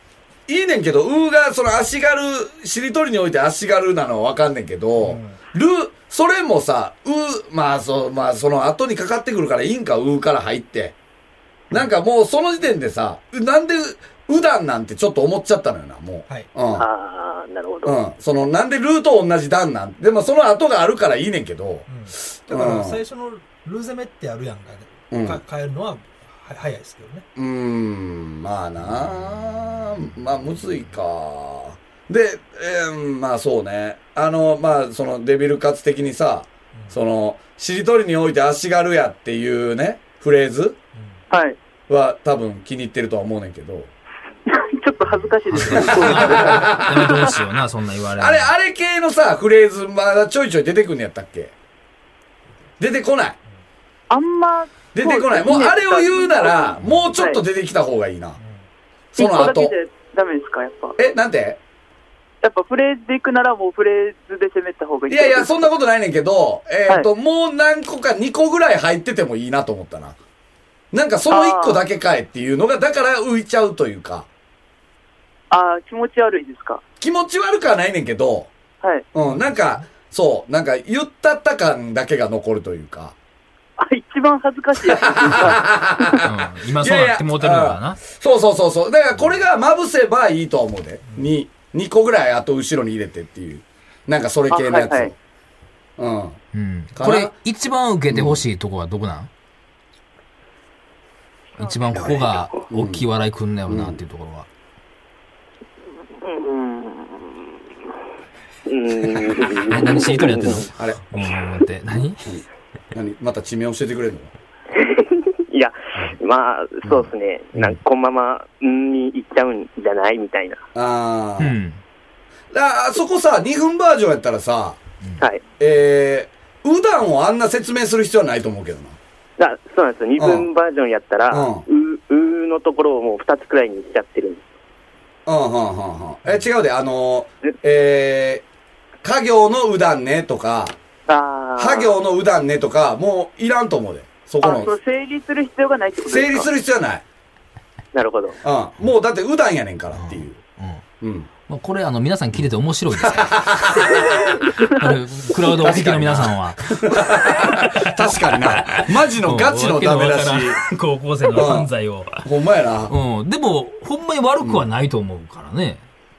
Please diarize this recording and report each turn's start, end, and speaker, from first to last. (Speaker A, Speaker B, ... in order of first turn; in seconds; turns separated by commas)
Speaker A: 0.5-10.9, Speaker B: 5.0-5.4, Speaker A: 11.7-16.9, Speaker C: 16.7-18.0, Speaker A: 17.9-23.0, Speaker B: 21.9-27.3, Speaker A: 25.1-25.4, Speaker A: 27.4-40.8, Speaker B: 40.9-41.2, Speaker D: 41.3-41.6, Speaker A: 41.9-43.9, Speaker D: 44.5-47.1, Speaker E: 45.1-48.5, Speaker A: 45.7-47.4, Speaker A: 48.2-51.5, Speaker A: 52.8-53.4, Speaker D: 54.1-57.4, Speaker A: 54.9-58.4, Speaker B: 58.4-58.7, Speaker A: 59.1-59.7, Speaker D: 59.2-61.0, Speaker A: 61.0-61.6, Speaker D: 62.4-65.7, Speaker A: 65.1-70.2, Speaker A: 70.9-74.3, Speaker D: 71.3-71.8, Speaker D: 75.5-76.8, Speaker A: 77.0-78.5, Speaker D: 78.8-79.1, Speaker A: 79.1-83.2, Speaker B: 79.3-79.8, Speaker D: 83.8-86.2, Speaker A: 84.9-95.2, Speaker E: 86.2-88.0, Speaker B: 91.1-91.3, Speaker D: 94.5-95.1, Speaker A: 96.0-96.4, Speaker E: 96.5-99.3, Speaker A: 97.0-97.3, Speaker A: 98.1-98.4, Speaker E: 101.6-104.5, Speaker C: 102.0-102.6, Speaker A: 102.0-103.0, Speaker A: 103.7-104.0, Speaker C: 106.2-107.5, Speaker C: 108.7-110.7, Speaker E: 109.7-112.4, Speaker A: 110.5-111.0, Speaker A: 112.9-114.3, Speaker C: 114.8-120.6, Speaker A: 116.8-117.1, Speaker A: 120.8-121.6, Speaker E: 121.4-121.8, Speaker A: 122.5-124.8, Speaker A: 125.6-129.0, Speaker C: 129.4-134.5, Speaker A: 130.2-130.5, Speaker A: 131.3-131.7, Speaker A: 135.3-138.4, Speaker A: 139.0-140.8, Speaker C: 141.1-141.9, Speaker A: 141.6-144.7, Speaker D: 144.4-146.5, Speaker A: 146.1-147.0, Speaker C: 147.9-148.4, Speaker A: 148.4-150.4, Speaker E: 149.9-150.8, Speaker A: 151.0-151.3, Speaker E: 151.5-154.0, Speaker A: 153.0-154.4, Speaker E: 154.6-162.2, Speaker A: 155.4-160.6, Speaker A: 161.3-162.9, Speaker E: 162.9-165.8